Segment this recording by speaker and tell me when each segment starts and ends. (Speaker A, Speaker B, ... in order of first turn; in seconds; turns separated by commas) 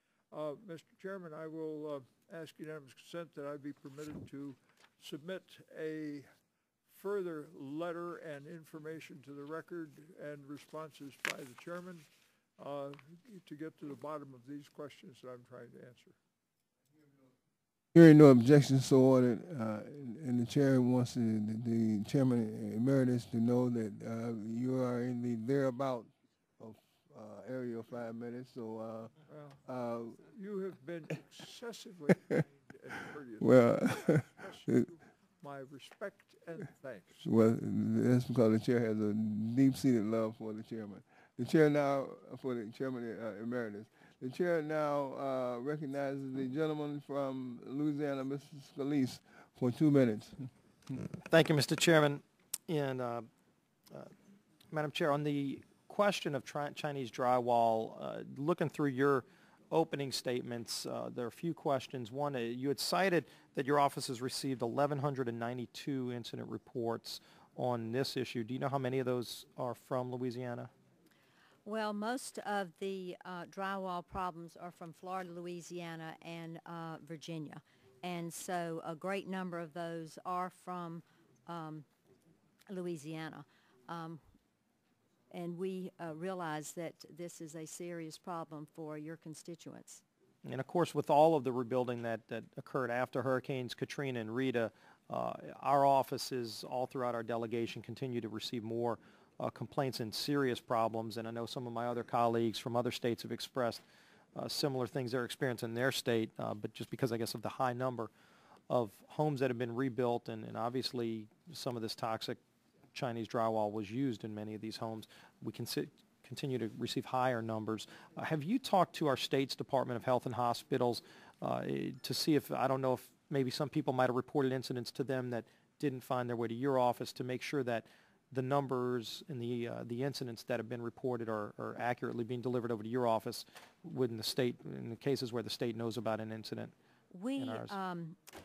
Speaker A: 0.3-6.3, Speaker A: 6.9-12.1, Speaker A: 12.6-16.1, Speaker B: 17.9-30.2, Speaker A: 29.3-29.6, Speaker A: 30.3-37.2, Speaker B: 33.4-34.9, Speaker B: 37.2-51.1, Speaker C: 51.3-53.3, Speaker C: 54.7-70.7, Speaker D: 71.6-81.8, Speaker D: 82.7-84.2, Speaker D: 85.3-90.0, Speaker C: 90.4-103.8, Speaker C: 104.3-108.1, Speaker C: 108.7-112.4, Speaker C: 112.9-136.7, Speaker D: 137.1-138.2, Speaker C: 137.4-137.8